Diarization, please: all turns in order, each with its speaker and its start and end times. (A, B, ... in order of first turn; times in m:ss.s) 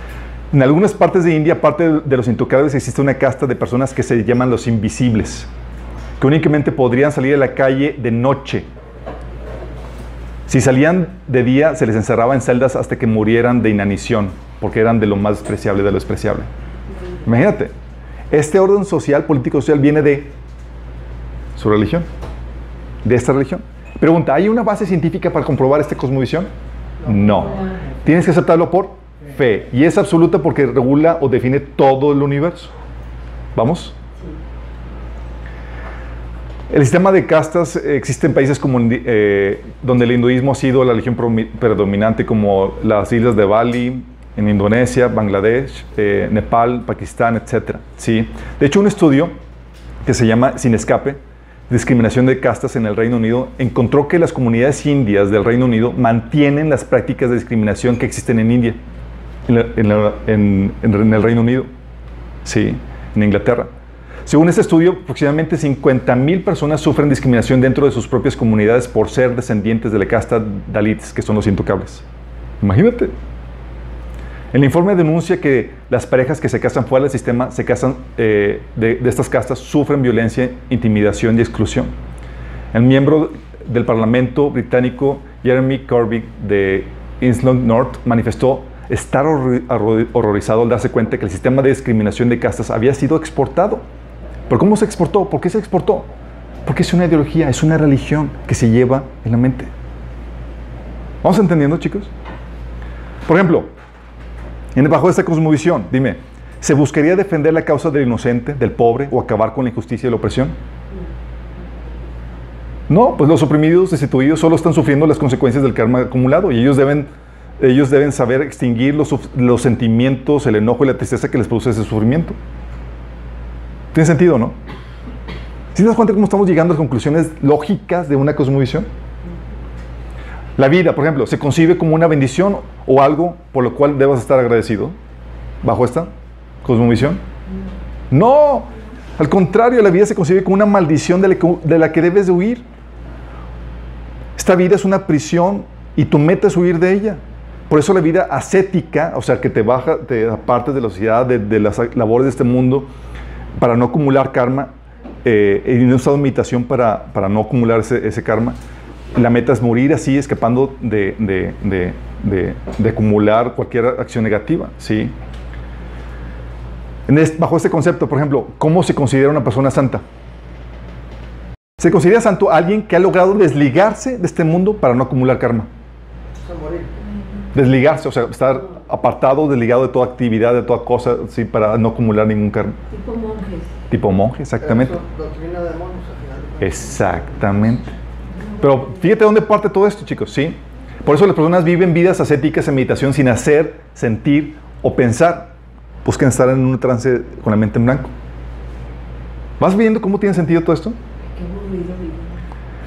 0:00.5-0:05.5 A
0:06.2-0:08.7 A
0:10.5-0:16.5 A
0:17.2-0:17.7 A
0:18.3-0:20.3 A
0:21.6-0:22.1 A
0:23.0-0:26.5 A
0:27.0-0:32.7 A
0:27.1-0:27.6 B
0:33.6-0:34.0 A
0:36.7-0:49.3 A
0:50.0-0:58.8 A
0:59.5-1:01.7 A
1:02.4-1:03.7 A
1:04.2-1:12.0 A
1:12.6-1:13.1 A
1:14.5-1:21.9 A
1:22.7-1:33.8 A
1:34.5-1:36.1 A
1:36.6-1:39.7 A
1:41.2-1:42.1 A
1:43.2-1:43.7 A
1:44.8-1:50.6 A
1:52.9-2:02.4 A
2:03.9-2:04.6 A
2:05.7-2:08.9 A
2:10.6-2:15.0 A
2:15.6-2:16.1 A
2:16.6-2:17.2 A
2:18.1-2:22.6 A
2:24.4-2:32.9 A
2:33.6-2:34.7 A
2:35.2-2:38.6 A
2:39.1-2:45.1 A
2:47.1-2:50.0 A
2:51.8-2:55.7 A
2:56.4-2:57.0 B
2:57.5-3:02.8 A
3:02.9-3:03.7 C
3:03.9-3:05.0 A
3:04.6-3:07.8 B
3:06.6-3:07.9 A
3:08.3-3:08.9 C
3:08.6-3:18.1 A
3:19.6-3:21.0 A
3:21.2-3:22.4 C